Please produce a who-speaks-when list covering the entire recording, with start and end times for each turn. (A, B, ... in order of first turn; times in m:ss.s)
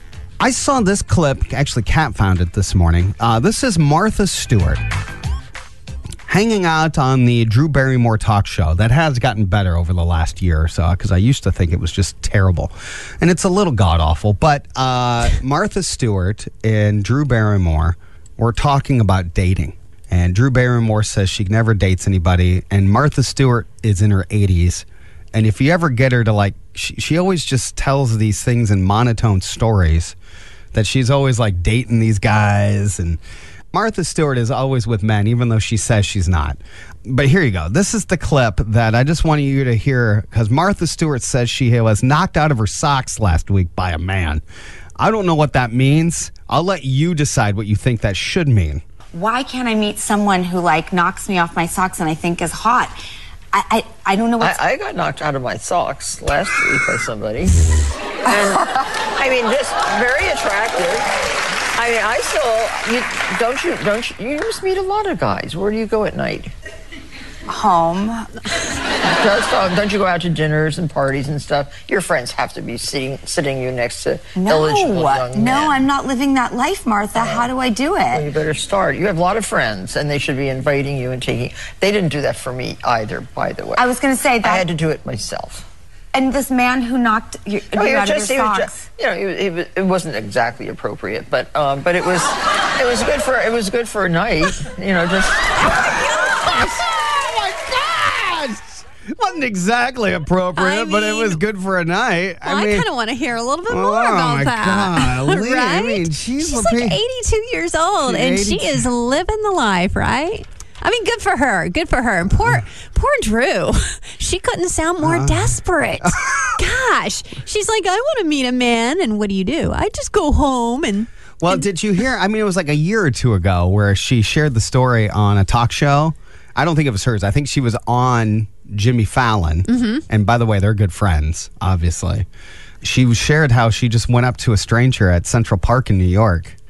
0:00.4-0:04.8 A
0:06.3-0:30.2 A
0:30.7-0:33.2 A
0:33.7-0:44.4 A
0:45.0-0:48.8 A
0:49.1-0:53.0 B
0:53.5-0:54.6 B
0:54.4-0:57.6 C
0:58.3-0:58.6 B
0:58.3-1:01.1 C
1:01.7-1:06.5 C
1:07.5-1:08.3 B
1:09.0-1:15.9 C
1:14.4-1:18.3 B
1:17.1-1:17.5 C
1:18.1-1:23.9 C
1:23.8-1:24.7 B
1:24.4-1:25.6 C
1:26.1-1:28.8 B
1:27.7-1:35.7 C
1:36.0-1:42.9 A
1:40.6-1:41.4 D
1:42.4-2:01.6 D
1:43.7-1:47.0 A
1:48.0-1:48.8 A
1:55.0-1:56.6 A
2:01.4-2:12.3 A
2:09.7-2:10.0 D
2:12.8-2:16.6 A